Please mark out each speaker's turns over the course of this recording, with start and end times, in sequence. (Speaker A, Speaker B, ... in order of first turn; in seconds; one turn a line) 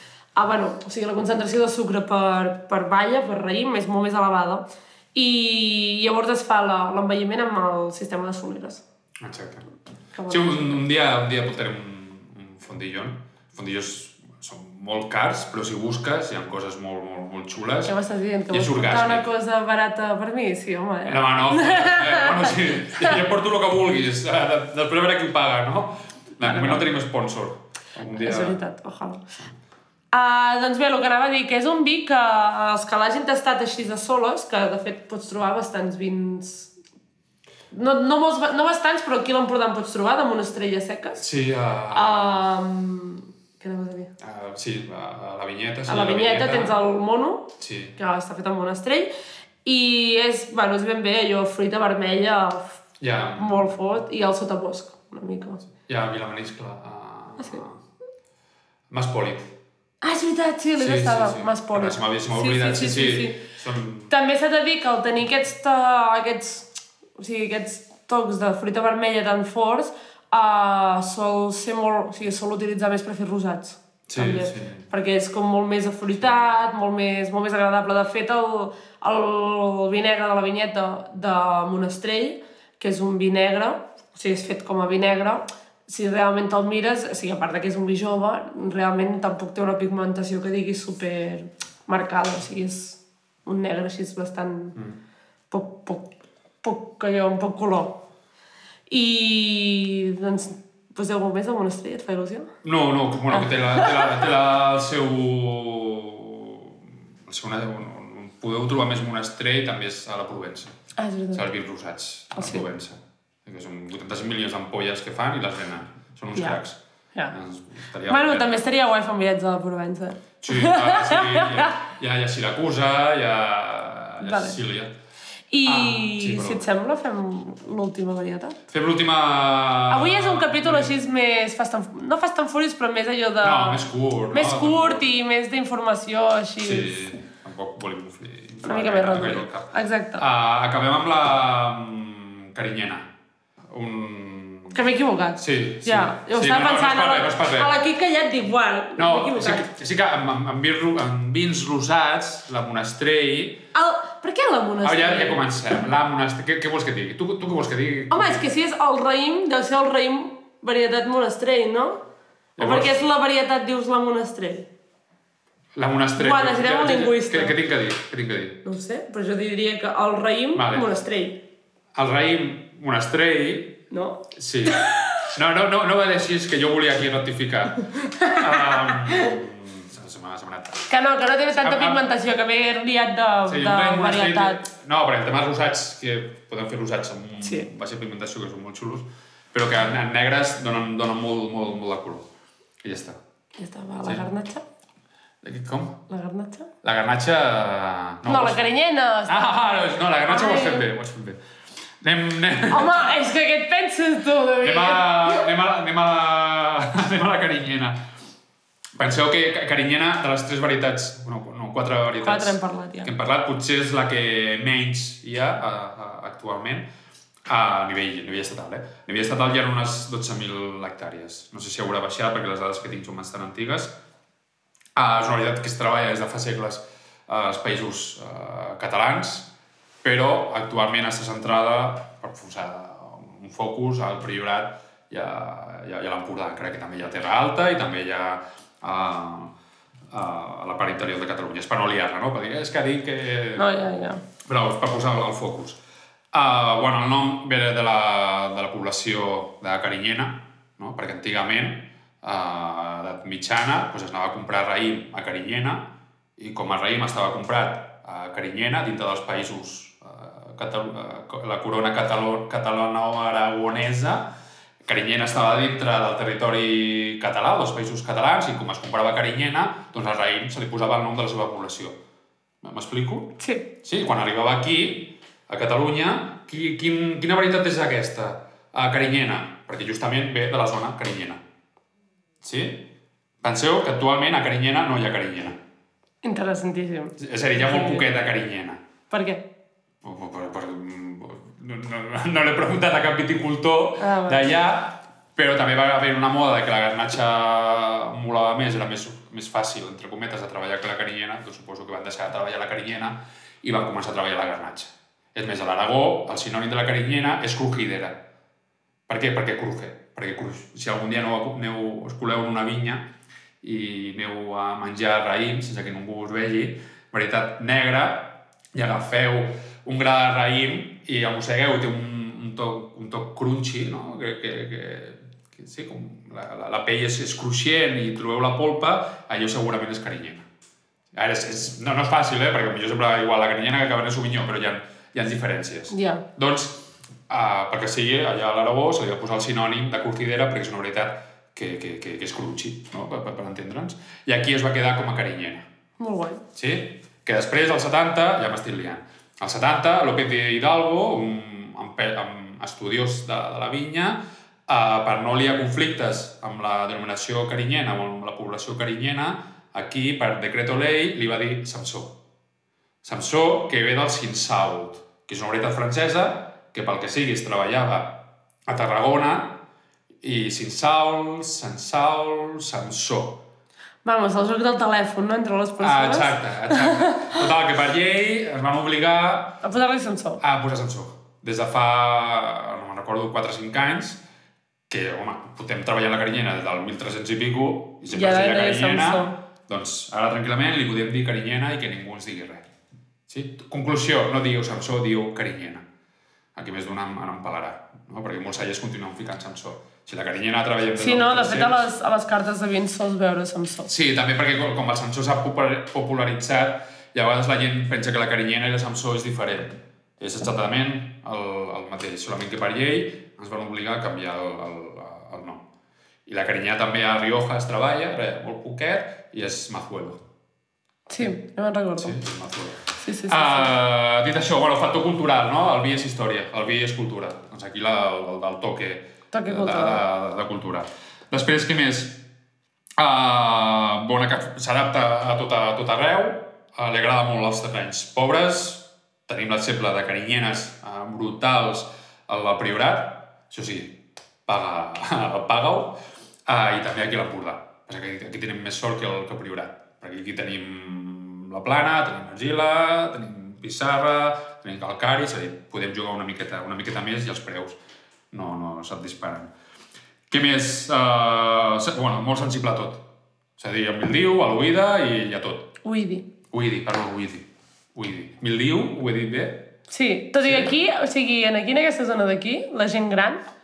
Speaker A: 0.3-8.8
Speaker B: 9.2-9.6
Speaker A: 10.1-10.8
Speaker B: 10.3-17.9
Speaker A: 17.9-23.2
Speaker B: 18.5-19.3
Speaker B: 21.1-28.6
Speaker A: 26.4-26.9
Speaker A: 28.1-29.2
Speaker A: 30.1-36.7
Speaker A: 37.7-41.2
Speaker B: 41.2-42.4
Speaker A: 41.9-44.1
Speaker B: 44.2-46.7
Speaker A: 45.9-49.1
Speaker B: 47.6-48.0
Speaker A: 49.6-52.8
Speaker B: 53.0-53.7
Speaker A: 53.4-55.6
Speaker B: 55.9-57.8
Speaker B: 58.9-59.5
Speaker A: 60.0-63.4
Speaker B: 60.8-64.1
Speaker A: 64.1-66.7
Speaker A: 67.2-94.8
Speaker B: 74.1-74.8
Speaker A: 95.5-96.1
Speaker A: 96.6-98.0
Speaker A: 98.9-102.5
Speaker B: 102.6-110.7
Speaker A: 103.3-104.2
Speaker A: 111.0-111.4
Speaker B: 111.3-116.8
Speaker A: 112.4-112.7
Speaker B: 117.3-118.5
Speaker A: 118.1-121.8
Speaker B: 120.4-124.9
Speaker A: 124.2-124.6
Speaker A: 125.5-128.6
Speaker B: 125.7-126.7
Speaker B: 128.7-130.9
Speaker A: 129.9-137.1
Speaker B: 133.4-135.1
Speaker B: 136.6-143.1
Speaker A: 138.6-140.2
Speaker B: 143.7-144.8
Speaker A: 144.7-149.7
Speaker B: 145.4-147.8
Speaker B: 149.0-153.6
Speaker A: 153.7-155.4
Speaker B: 154.8-158.4
Speaker A: 158.1-162.0
Speaker B: 162.6-162.9
Speaker A: 162.6-164.7
Speaker B: 165.7-168.6
Speaker A: 166.2-167.6
Speaker A: 168.6-171.4
Speaker B: 170.5-170.9
Speaker B: 171.9-173.8
Speaker A: 173.9-175.2
Speaker B: 174.3-180.8
Speaker A: 177.9-179.3
Speaker A: 180.9-184.6
Speaker B: 181.5-182.0
Speaker B: 183.5-192.3
Speaker A: 187.4-187.7
Speaker B: 192.8-193.2
Speaker A: 193.6-194.6
Speaker B: 195.4-196.0
Speaker A: 196.1-196.7
Speaker B: 196.8-198.6
Speaker A: 198.2-200.8
Speaker B: 199.3-201.4
Speaker B: 202.0-203.1
Speaker A: 202.7-205.5
Speaker B: 204.6-208.0
Speaker B: 209.0-216.9
Speaker A: 212.2-213.1
Speaker B: 217.4-223.9
Speaker B: 224.9-229.5
Speaker B: 230.0-239.5
Speaker B: 240.1-243.7
Speaker A: 243.6-244.2
Speaker B: 244.4-245.8
Speaker B: 246.3-264.3
Speaker B: 264.8-271.9
Speaker B: 272.6-281.4
Speaker A: 273.4-273.7
Speaker B: 282.4-282.9
Speaker B: 283.4-285.6
Speaker A: 286.2-288.1
Speaker B: 287.2-288.8
Speaker A: 289.1-289.4
Speaker B: 290.0-308.2
Speaker A: 294.0-294.4
Speaker B: 309.1-330.4
Speaker B: 331.1-345.7
Speaker A: 335.9-336.2
Speaker A: 346.0-346.4
Speaker B: 346.5-362.2
Speaker B: 363.0-369.6
Speaker B: 370.2-373.4
Speaker A: 374.0-377.4
Speaker B: 375.8-379.6
Speaker A: 379.6-380.4
Speaker B: 380.4-384.2
Speaker B: 384.9-392.6
Speaker A: 388.1-389.4
Speaker B: 393.3-395.8
Speaker B: 396.5-401.9
Speaker A: 401.0-403.9
Speaker B: 403.9-415.6
Speaker B: 416.2-420.2
Speaker A: 421.1-422.2
Speaker B: 422.0-432.2
Speaker A: 423.0-423.7
Speaker A: 429.3-430.0
Speaker B: 433.0-457.8
Speaker B: 458.3-459.5
Speaker B: 460.3-463.0
Speaker B: 463.6-465.7
Speaker A: 465.8-466.3
Speaker B: 466.5-469.7
Speaker A: 469.9-473.4
Speaker B: 470.4-470.7